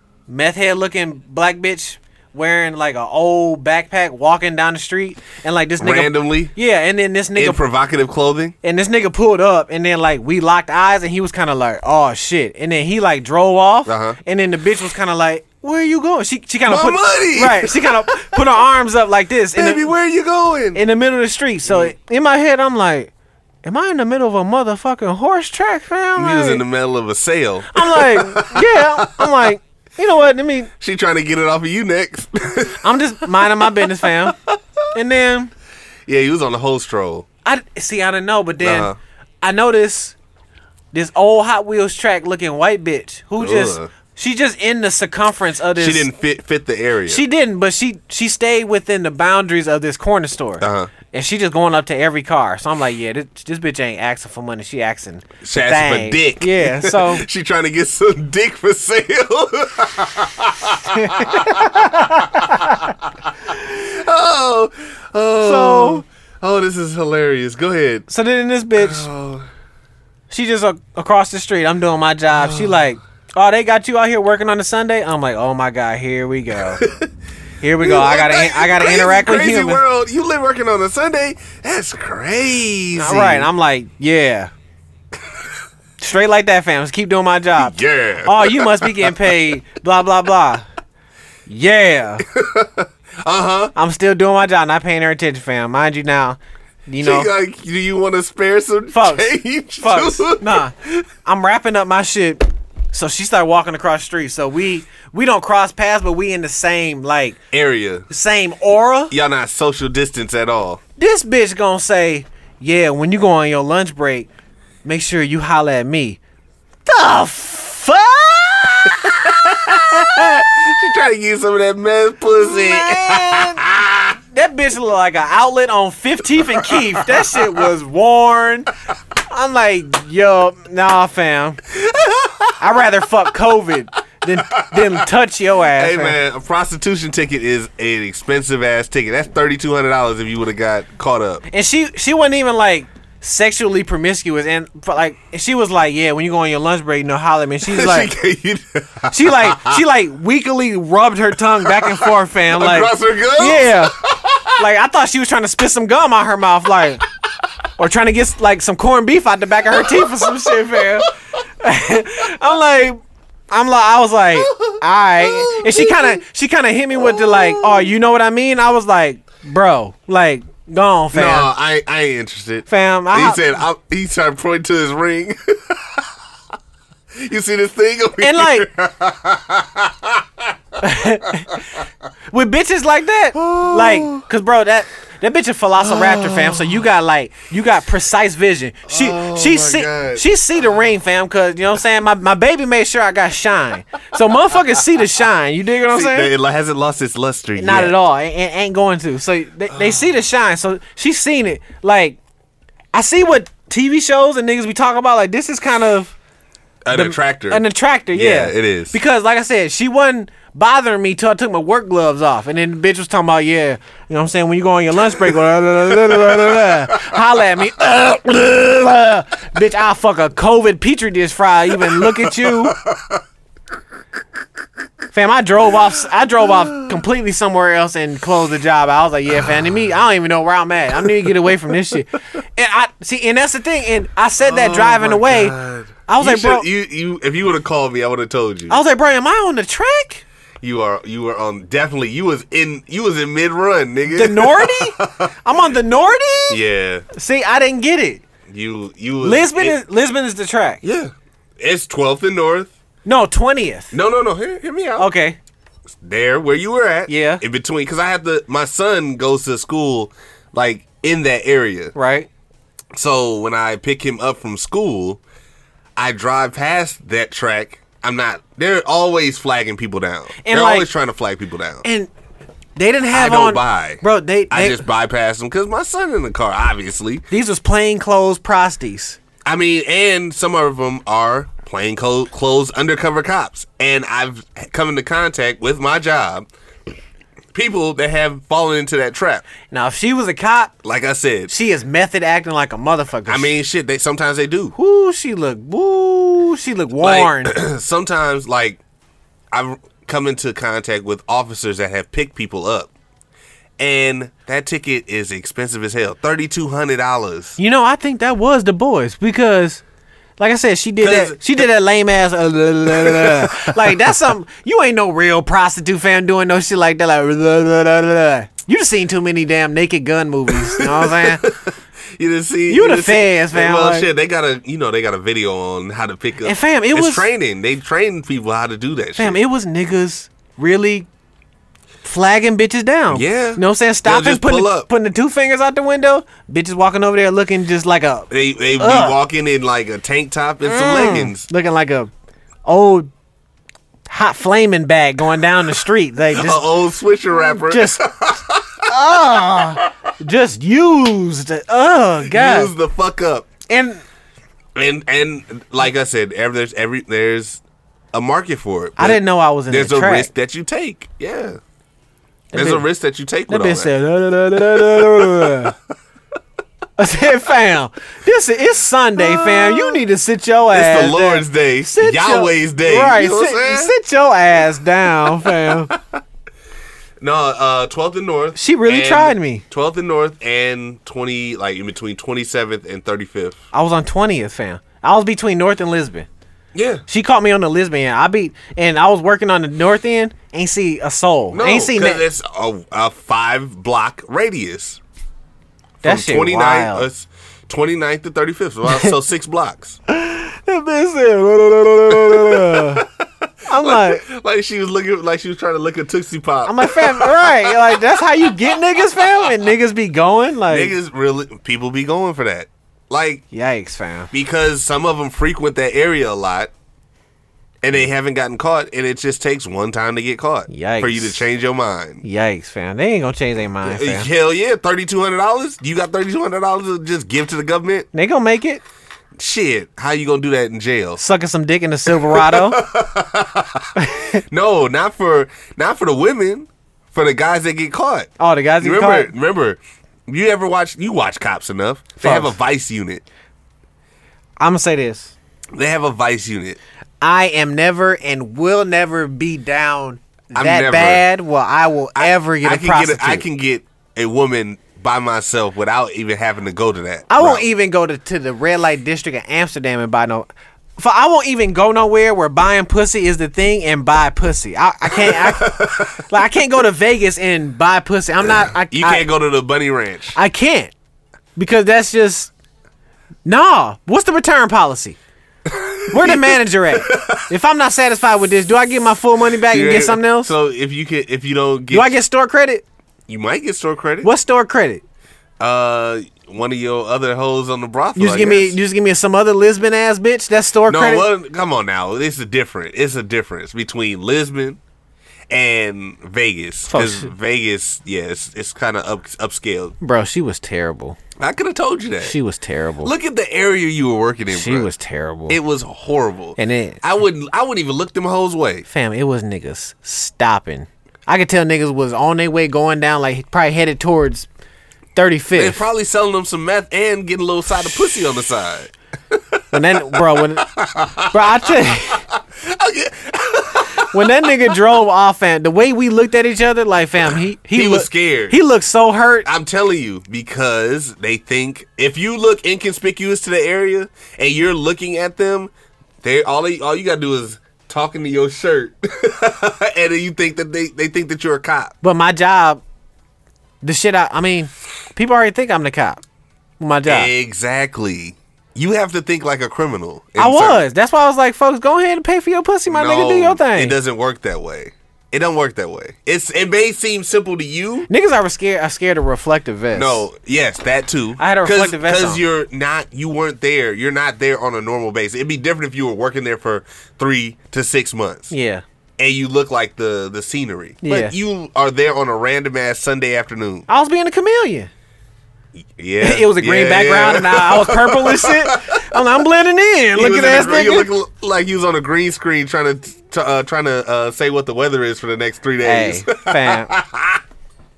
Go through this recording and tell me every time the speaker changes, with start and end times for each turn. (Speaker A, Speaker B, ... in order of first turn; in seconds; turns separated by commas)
Speaker A: 0.3-7.6, Speaker B: 5.8-6.5, Speaker B: 7.3-8.5, Speaker A: 8.6-19.9, Speaker B: 13.8-14.2, Speaker B: 16.6-18.4, Speaker B: 19.5-20.8, Speaker A: 20.7-23.1, Speaker B: 21.7-21.9, Speaker A: 23.6-26.6, Speaker B: 26.1-29.5, Speaker A: 27.7-30.7, Speaker B: 30.8-34.6, Speaker A: 32.8-34.3, Speaker A: 34.9-35.5, Speaker B: 36.1-37.2, Speaker A: 37.4-38.9, Speaker B: 38.6-39.0, Speaker A: 39.4-40.1, Speaker A: 40.9-46.1, Speaker B: 43.4-43.9, Speaker B: 45.8-47.2, Speaker A: 47.1-57.2, Speaker B: 50.6-50.9, Speaker B: 55.4-68.1, Speaker A: 60.9-62.9, Speaker A: 65.4-66.0, Speaker A: 68.1-69.1, Speaker B: 68.8-69.5, Speaker A: 70.3-76.8, Speaker B: 72.3-72.8, Speaker B: 76.7-77.1, Speaker A: 77.6-79.8, Speaker B: 77.8-83.5, Speaker A: 82.9-84.5, Speaker A: 86.0-90.7, Speaker B: 87.6-89.3, Speaker A: 91.5-92.2, Speaker B: 92.3-93.7, Speaker A: 93.8-97.3, Speaker B: 97.0-101.0, Speaker A: 98.9-100.7, Speaker A: 101.2-107.4, Speaker B: 107.5-108.1, Speaker A: 108.1-109.1, Speaker B: 109.1-110.8, Speaker A: 111.0-114.3, Speaker A: 114.8-116.2, Speaker A: 116.8-119.2, Speaker B: 118.9-124.2, Speaker A: 122.3-123.7, Speaker A: 124.3-128.7, Speaker B: 126.5-127.6, Speaker A: 129.3-131.6, Speaker B: 131.7-132.6, Speaker A: 132.6-136.2, Speaker B: 134.5-135.0, Speaker B: 135.7-141.4, Speaker A: 141.5-148.1, Speaker B: 147.7-149.8, Speaker A: 149.1-153.9, Speaker B: 151.6-154.6, Speaker A: 154.6-157.0, Speaker A: 157.8-171.5, Speaker B: 159.7-161.0, Speaker B: 164.3-166.2, Speaker B: 166.9-167.9, Speaker B: 171.1-176.1, Speaker A: 172.7-173.4, Speaker B: 177.2-181.6, Speaker A: 178.2-178.7, Speaker A: 180.8-181.6, Speaker A: 182.3-196.3, Speaker B: 183.3-184.2, Speaker B: 185.8-186.8, Speaker B: 188.8-190.2, Speaker B: 195.9-197.9, Speaker A: 197.6-202.2, Speaker B: 199.7-200.1, Speaker A: 202.9-206.1, Speaker B: 206.8-208.9, Speaker A: 206.9-222.8, Speaker B: 216.1-217.1, Speaker B: 221.8-223.2, Speaker A: 225.1-236.7, Speaker B: 234.4-238.8, Speaker A: 238.7-240.2, Speaker B: 240.6-245.3, Speaker A: 244.1-246.6, Speaker B: 246.5-247.0, Speaker A: 247.1-248.2, Speaker B: 248.5-249.8, Speaker A: 249.2-250.8, Speaker B: 250.8-252.7, Speaker A: 253.0-253.9, Speaker B: 253.9-255.1, Speaker A: 255.0-255.4, Speaker B: 255.9-261.9, Speaker A: 257.1-257.4, Speaker A: 261.9-262.3, Speaker B: 262.9-265.2, Speaker B: 265.9-271.8, Speaker A: 270.4-270.9, Speaker A: 271.8-272.1, Speaker A: 272.8-274.8, Speaker B: 273.1-277.2, Speaker A: 277.3-279.2, Speaker B: 279.4-286.5, Speaker B: 287.5-289.4, Speaker A: 289.7-290.7, Speaker B: 290.8-291.5, Speaker A: 291.5-293.5, Speaker B: 293.3-294.7, Speaker A: 294.7-297.6, Speaker B: 297.0-298.8, Speaker B: 299.5-302.9, Speaker B: 303.8-307.6, Speaker A: 307.6-309.8, Speaker A: 310.4-321.4, Speaker B: 311.0-311.6, Speaker B: 312.9-314.1, Speaker B: 320.5-329.4, Speaker A: 322.7-324.1, Speaker A: 326.4-327.3, Speaker A: 329.2-331.1, Speaker A: 332.0-339.2, Speaker B: 333.1-334.9, Speaker B: 338.3-341.5, Speaker A: 340.6-342.1, Speaker A: 342.6-343.1, Speaker A: 344.1-346.7, Speaker B: 346.3-348.9, Speaker A: 347.4-348.0, Speaker A: 348.8-352.7, Speaker B: 352.2-353.5, Speaker A: 353.7-354.0, Speaker B: 354.7-357.6, Speaker B: 358.1-361.6, Speaker A: 359.0-360.3, Speaker A: 362.5-362.9, Speaker B: 362.5-363.9, Speaker A: 363.5-365.7, Speaker B: 364.6-365.7, Speaker A: 367.0-375.9, Speaker B: 369.2-370.0, Speaker B: 370.7-373.9, Speaker B: 375.3-376.2, Speaker B: 377.2-383.6, Speaker A: 378.6-379.6, Speaker A: 383.7-386.3, Speaker B: 386.7-387.0, Speaker A: 387.1-392.2, Speaker B: 391.5-395.0, Speaker B: 396.0-400.0, Speaker A: 396.0-397.1, Speaker A: 400.1-403.1, Speaker B: 402.1-409.5, Speaker A: 403.7-404.2, Speaker A: 406.6-410.9, Speaker B: 410.7-413.4, Speaker A: 413.5-414.3, Speaker B: 414.3-416.7, Speaker B: 417.8-422.2, Speaker A: 420.7-421.4, Speaker A: 422.2-424.3, Speaker B: 423.8-428.1, Speaker A: 428.1-428.8, Speaker B: 429.4-431.2, Speaker A: 431.2-432.8, Speaker B: 432.1-438.3, Speaker A: 433.9-434.4, Speaker A: 438.4-439.3, Speaker B: 438.8-443.2, Speaker A: 442.2-442.6, Speaker A: 444.6-445.3, Speaker B: 445.7-446.8, Speaker A: 447.2-453.4, Speaker B: 450.5-451.2, Speaker B: 452.1-457.6, Speaker A: 457.3-469.3, Speaker B: 465.1-466.2, Speaker B: 468.4-470.4, Speaker A: 470.3-470.9, Speaker A: 471.6-472.5, Speaker A: 473.4-475.2, Speaker B: 475.7-477.4, Speaker A: 476.1-480.5, Speaker B: 479.6-482.2, Speaker A: 481.9-482.8, Speaker B: 483.3-484.3, Speaker A: 484.2-485.0, Speaker B: 485.6-488.8, Speaker A: 488.1-491.3, Speaker B: 490.9-494.8, Speaker B: 495.5-499.9, Speaker A: 496.9-497.3, Speaker A: 500.0-501.2, Speaker B: 501.4-502.3, Speaker A: 502.2-503.1, Speaker B: 503.0-504.9, Speaker A: 504.5-505.6, Speaker B: 505.5-508.9, Speaker A: 506.6-507.0, Speaker A: 508.9-514.5, Speaker A: 515.1-515.8, Speaker B: 515.5-524.8, Speaker A: 519.7-520.7, Speaker A: 521.3-522.2, Speaker A: 524.0-529.5, Speaker B: 527.7-528.6, Speaker B: 529.4-535.7, Speaker B: 536.2-541.9, Speaker A: 542.0-542.8, Speaker A: 543.8-546.2, Speaker A: 546.8-547.3, Speaker B: 547.0-550.8, Speaker A: 550.4-553.9, Speaker B: 552.9-558.1, Speaker A: 558.1-560.2, Speaker B: 559.9-568.5, Speaker A: 561.4-562.4, Speaker A: 568.5-568.8, Speaker B: 569.2-573.9, Speaker A: 571.0-571.3, Speaker A: 573.9-574.9, Speaker B: 575.8-579.2, Speaker A: 576.2-581.1, Speaker B: 580.1-587.4, Speaker A: 585.8-586.9